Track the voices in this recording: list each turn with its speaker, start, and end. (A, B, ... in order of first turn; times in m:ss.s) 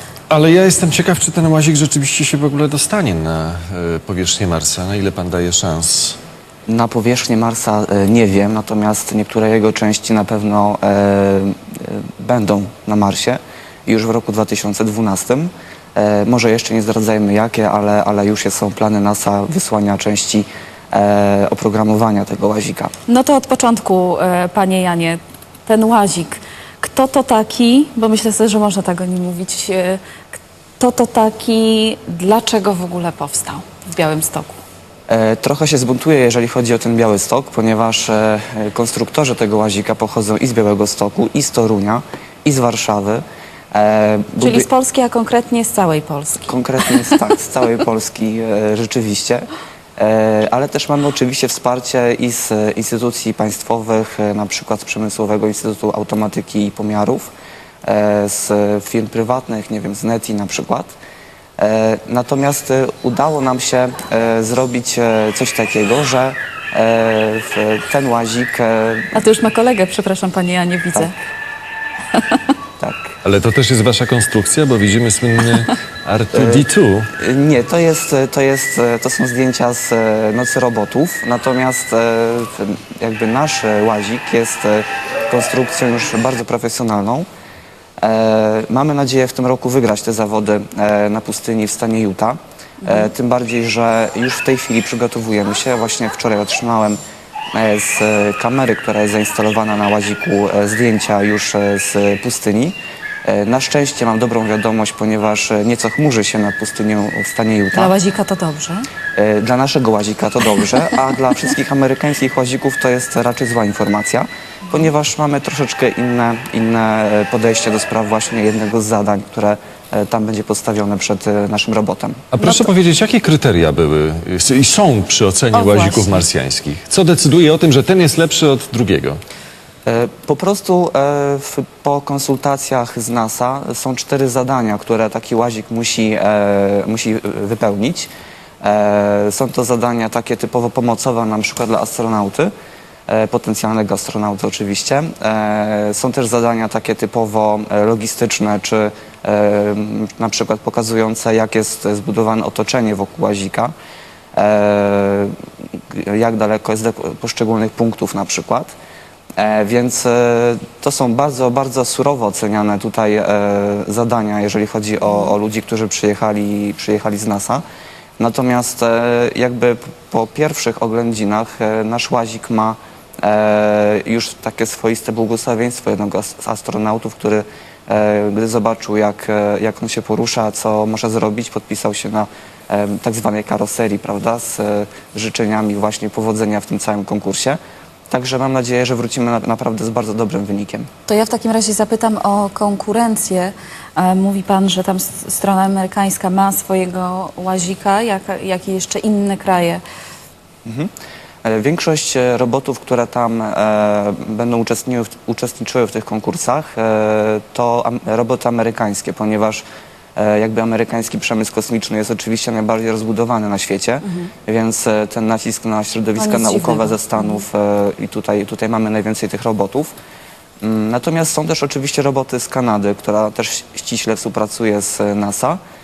0:00.3-0:06.2 A
0:06.7-0:22.9 B
0:23.1-0:34.6 C
0:35.1-0:44.7 B
0:44.4-0:47.0 C
0:46.5-0:57.3 B
0:57.8-1:00.9 B
1:01.6-1:09.1 B
1:09.1-1:11.1 C
1:12.2-1:12.4 C
1:12.8-1:13.1 B
1:13.2-1:17.1 A
1:16.3-1:16.7 B
1:17.2-1:27.3 B
1:28.0-1:37.0 B
1:32.8-1:33.1 C
1:37.5-1:47.9 B
1:47.7-1:48.9 C
1:49.2-2:02.3 B
2:02.3-2:09.2 A
2:02.4-2:02.7 C
2:05.5-2:06.2 C
2:09.9-2:18.1 B
2:18.6-2:22.5 B
2:23.1-2:33.7 B
2:34.4-2:35.3 B
2:35.9-2:38.7 B
2:39.4-2:47.6 B
2:48.2-3:07.6 B
3:08.1-3:10.9 B
3:11.1-3:19.8 C
3:20.6-3:20.9 B
3:21.4-3:29.6 B
3:30.2-3:39.9 B
3:34.0-3:34.3 C
3:36.2-3:37.4 C
3:40.6-3:45.6 B